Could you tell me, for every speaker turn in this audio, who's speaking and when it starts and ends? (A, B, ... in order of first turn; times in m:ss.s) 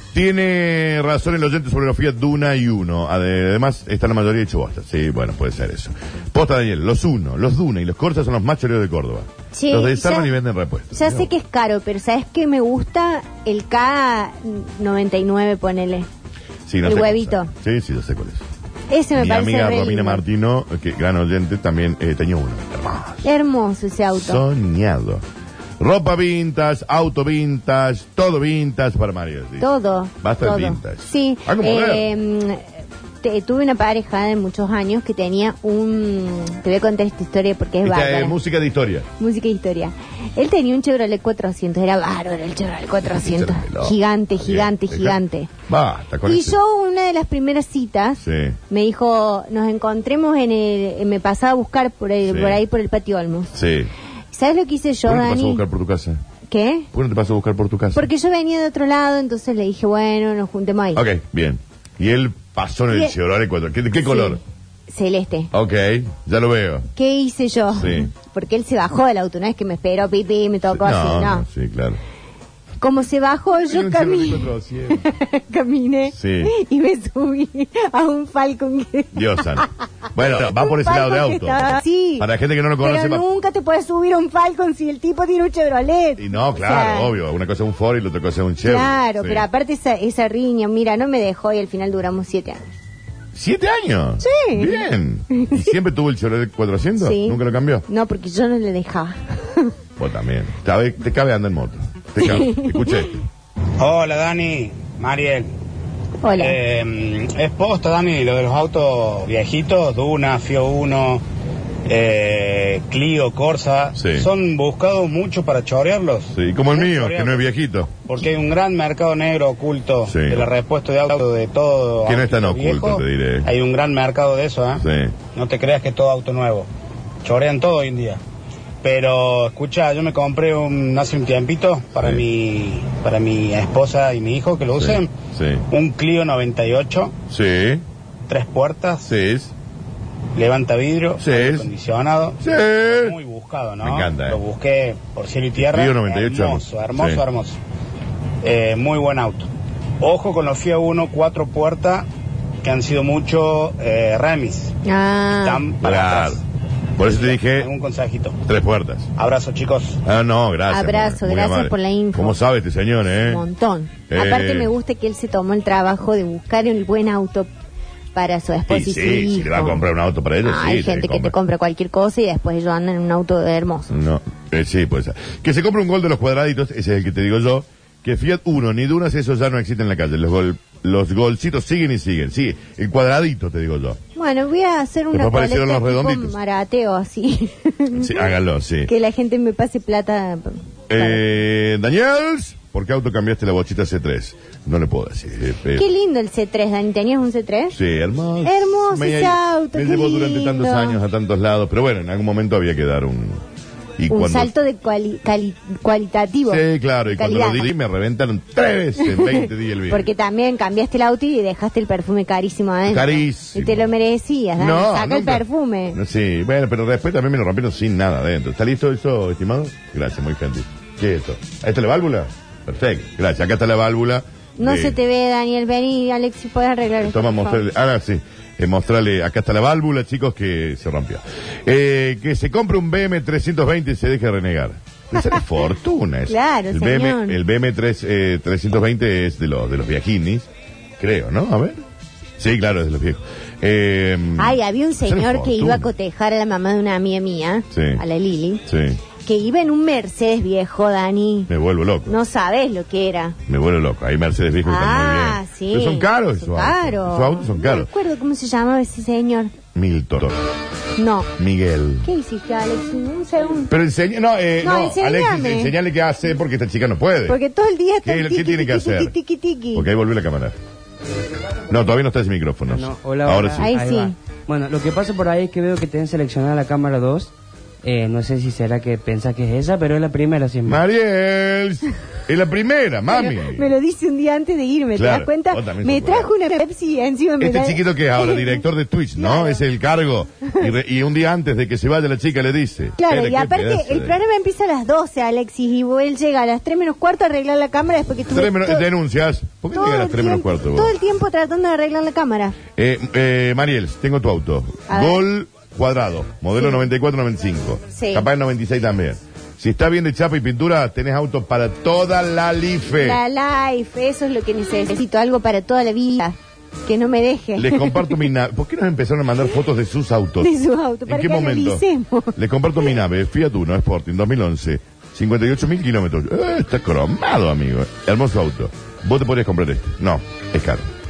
0:00.1-0:11.3 A
0:09.5-0:10.3 B
0:10.9-0:16.1 B
0:16.7-0:18.4 A
0:16.8-0:17.5 B
0:18.9-0:20.2 B
0:19.2-0:23.3 A
0:23.2-0:24.4 B
0:24.2-0:25.2 A
0:25.8-0:29.7 A
0:29.6-0:32.7 B
0:30.2-0:32.1 A
0:33.2-0:38.4 B
0:37.8-0:39.1 A
0:39.2-0:45.5 B
0:43.0-0:46.6 A
0:46.2-0:53.5 B
0:48.2-0:48.6 A
0:52.2-0:52.6 A
0:53.5-0:53.9 A
0:54.3-0:55.6 B
0:55.1-0:56.2 A
0:56.5-0:56.9 B
0:56.9-0:58.1 A
0:57.9-1:01.0 B
1:00.9-1:04.4 A
1:02.9-1:03.2 B
1:04.0-1:05.5 B
1:05.5-1:06.9 A
1:06.9-1:11.5 B
1:07.7-1:08.1 A
1:10.7-1:12.0 A
1:12.8-1:22.3 B
1:13.7-1:15.0 A
1:16.1-1:16.5 A
1:19.1-1:23.2 A
1:22.8-1:27.2 B
1:26.2-1:29.5 A
1:28.6-1:32.7 B
1:33.3-1:37.8 A
1:34.2-1:35.6 B
1:37.0-1:39.7 B
1:40.0-1:43.2 A
1:43.8-1:45.5 C
1:46.2-1:46.6 B
1:46.3-1:51.2 C
1:51.8-1:57.5 C
1:54.0-1:54.3 A
1:56.3-1:57.9 A
1:58.1-2:06.7 C
2:00.1-2:00.5 A
2:02.1-2:03.5 A
2:04.8-2:05.2 A
2:07.2-2:08.2 C
2:08.8-2:15.1 C
2:14.8-2:15.6 A
2:15.7-2:17.2 C
2:17.3-2:17.8 A
2:18.3-2:19.1 C
2:19.1-2:19.5 A
2:20.4-2:27.6 C
2:21.2-2:21.7 A
2:22.4-2:23.2 A
2:23.8-2:24.4 A
2:25.6-2:27.2 A
2:28.4-2:29.5 C
2:30.0-2:32.1 C
2:32.6-2:34.7 C
2:34.8-2:35.7 B
2:35.3-2:36.4 C
2:35.8-2:36.4 A
2:37.0-2:37.7 A
2:37.0-2:38.4 C
2:38.4-2:39.1 A
2:39.2-2:40.0 C
2:40.0-2:43.4 A
2:40.7-2:42.4 B
2:43.1-2:47.5 B
2:44.1-2:44.7 A
2:48.1-2:49.8 B
2:48.7-2:51.4 A
2:50.4-2:53.9 B
2:53.9-3:04.0 A
3:04.2-3:08.3 B
3:05.1-3:06.4 A
3:08.0-3:08.9 A
3:08.9-3:11.3 B
3:10.9-3:15.9 A
3:15.8-3:17.8 B
3:17.7-3:23.4 A
3:18.4-3:21.0 B
3:24.0-3:24.5 A
3:24.1-3:27.7 B
3:26.4-3:30.1 A
3:29.0-3:36.0 B
3:32.9-3:33.9 A
3:34.6-3:45.0 A
3:44.6-3:47.6 B
3:47.0-4:00.5 A
3:56.3-3:57.4 B
4:01.0-4:01.8 A
4:02.4-4:05.9 A
4:04.4-4:08.6 B
4:07.7-4:08.0 A
4:08.7-4:09.0 A
4:09.2-4:11.5 B
4:11.5-4:12.1 A
4:12.1-4:13.4 B
4:13.5-4:17.9 A
4:14.6-4:19.5 B
4:19.7-4:20.4 A
4:21.0-4:21.3 B
4:21.4-4:22.1 A
4:22.0-4:23.7 B
4:23.7-4:27.4 A
4:24.6-4:25.8 B
4:27.3-4:29.9 B
4:28.0-4:29.2 A
4:29.7-4:30.6 A
4:31.7-4:33.7 A
4:32.7-4:40.8 D
4:33.6-4:34.2 B
4:40.7-4:43.7 A
4:43.1-4:48.6 B
4:44.9-4:46.3 A
4:47.4-4:54.2 A
4:49.2-4:49.6 B
4:53.0-4:58.9 B
4:58.3-5:00.9 A
4:59.7-5:02.6 B
5:02.8-5:13.2 A
5:04.9-5:05.2 B
5:08.0-5:08.3 B
5:13.0-5:18.2 B
5:17.6-5:20.5 A
5:20.4-5:22.4 B
5:21.1-5:30.8 A